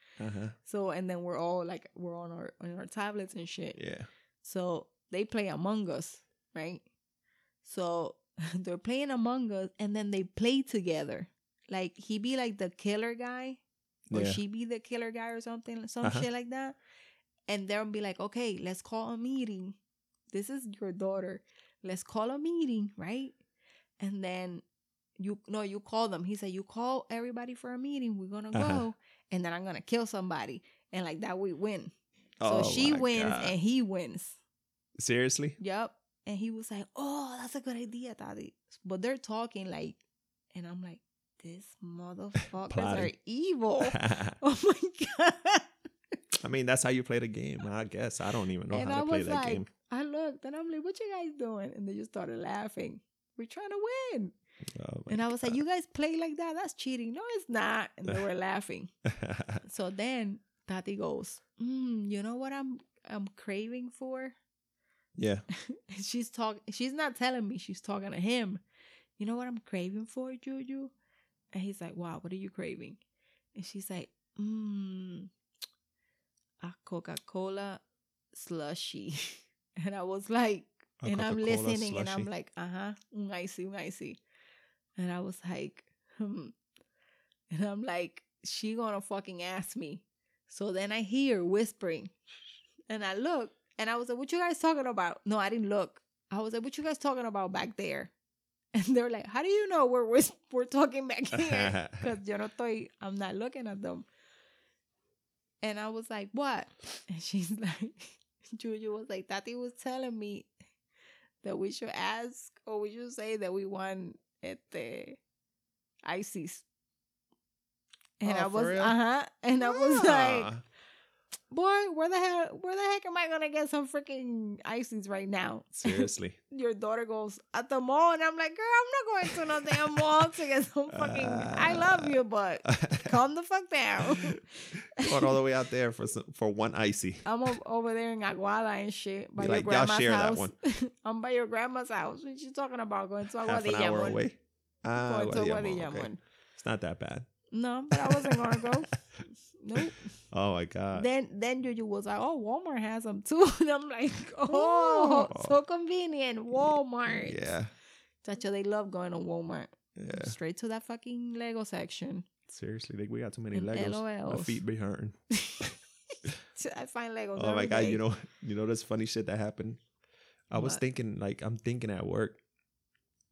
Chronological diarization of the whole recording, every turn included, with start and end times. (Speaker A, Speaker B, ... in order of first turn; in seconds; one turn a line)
Speaker A: 0.2-0.5
Speaker B: 0.6-3.8
Speaker A: 3.8-4.1
Speaker B: 4.4-6.8
Speaker B: 7.6-13.6
Speaker A: 14.1-14.4
Speaker B: 14.1-16.8
Speaker A: 16.0-16.3
Speaker B: 17.5-19.8
Speaker B: 20.3-23.4
Speaker B: 24.0-24.6
Speaker B: 25.2-31.9
Speaker A: 28.5-28.8
Speaker A: 32.4-33.5
Speaker B: 32.4-34.4
Speaker A: 35.0-35.6
Speaker B: 35.6-40.0
Speaker B: 40.5-45.7
Speaker A: 42.7-43.1
Speaker A: 43.9-44.4
Speaker A: 46.4-49.7
Speaker B: 48.7-54.3
Speaker A: 54.7-55.6
Speaker B: 55.1-58.9
Speaker A: 59.0-59.6
Speaker B: 59.6-64.3
Speaker A: 65.1-65.5
Speaker B: 65.5-68.6
Speaker B: 69.2-70.9
Speaker B: 71.5-73.0
Speaker B: 73.5-75.3
Speaker B: 76.6-77.8
Speaker B: 78.3-84.2
Speaker A: 81.0-82.3
Speaker B: 85.0-86.5
Speaker B: 87.5-92.1
Speaker B: 92.9-98.1
Speaker B: 98.7-104.0
Speaker A: 101.3-102.1
Speaker B: 105.6-110.5
Speaker B: 111.4-115.2
Speaker B: 116.0-116.6
Speaker B: 118.2-120.5
Speaker A: 118.2-118.9
Speaker A: 119.6-120.6
Speaker B: 121.5-135.4
Speaker A: 125.8-126.4
Speaker A: 129.4-129.8
Speaker A: 130.9-133.1
Speaker A: 134.0-134.3
Speaker A: 135.0-137.2
Speaker B: 137.2-144.2
Speaker A: 139.4-140.5
Speaker A: 143.4-147.3
Speaker B: 144.9-146.2
Speaker B: 147.5-150.1
Speaker A: 147.9-148.8
Speaker A: 149.8-151.1
Speaker B: 150.9-157.5
Speaker A: 154.5-155.6
Speaker A: 156.6-157.7
Speaker B: 158.2-162.3
Speaker A: 159.9-160.3
Speaker A: 162.5-165.7
Speaker B: 163.5-164.6
Speaker B: 165.3-168.0
Speaker A: 167.3-169.8
Speaker A: 170.5-172.4
Speaker B: 170.5-170.8